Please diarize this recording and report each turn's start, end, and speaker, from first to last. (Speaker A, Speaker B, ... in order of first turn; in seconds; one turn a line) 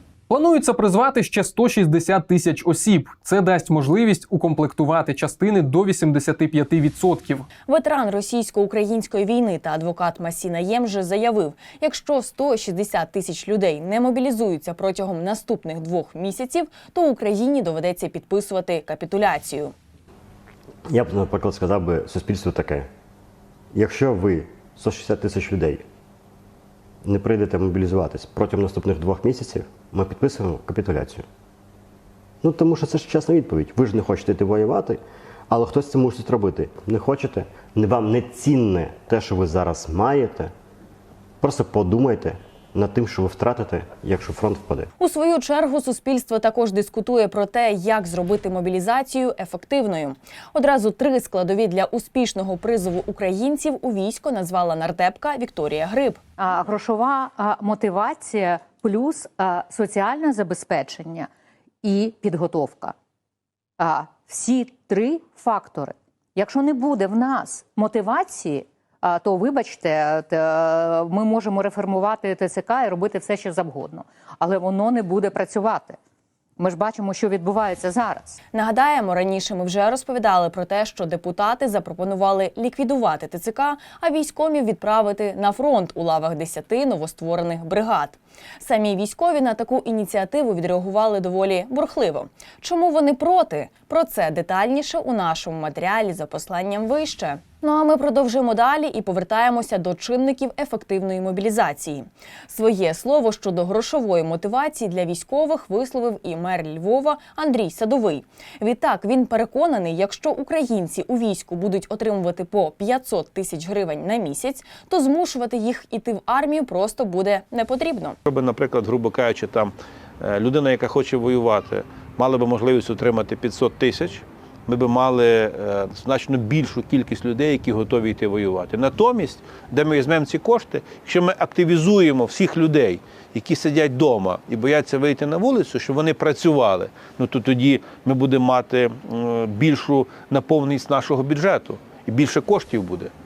Speaker A: 0.3-0.7
Speaker A: 2.5-7.3
Speaker B: 7.7-19.7
Speaker C: 20.9-22.9
Speaker C: 23.7-25.8
Speaker C: 27.0-31.2
Speaker C: 32.4-40.5
Speaker C: 41.4-44.9
Speaker B: 45.0-56.2
Speaker D: 56.4-61.3
Speaker D: 61.8-62.9
Speaker D: 63.8-76.0
Speaker D: 76.6-78.4
Speaker B: 78.5-118.2
Speaker E: 118.3-119.7
Speaker E: 120.2-143.1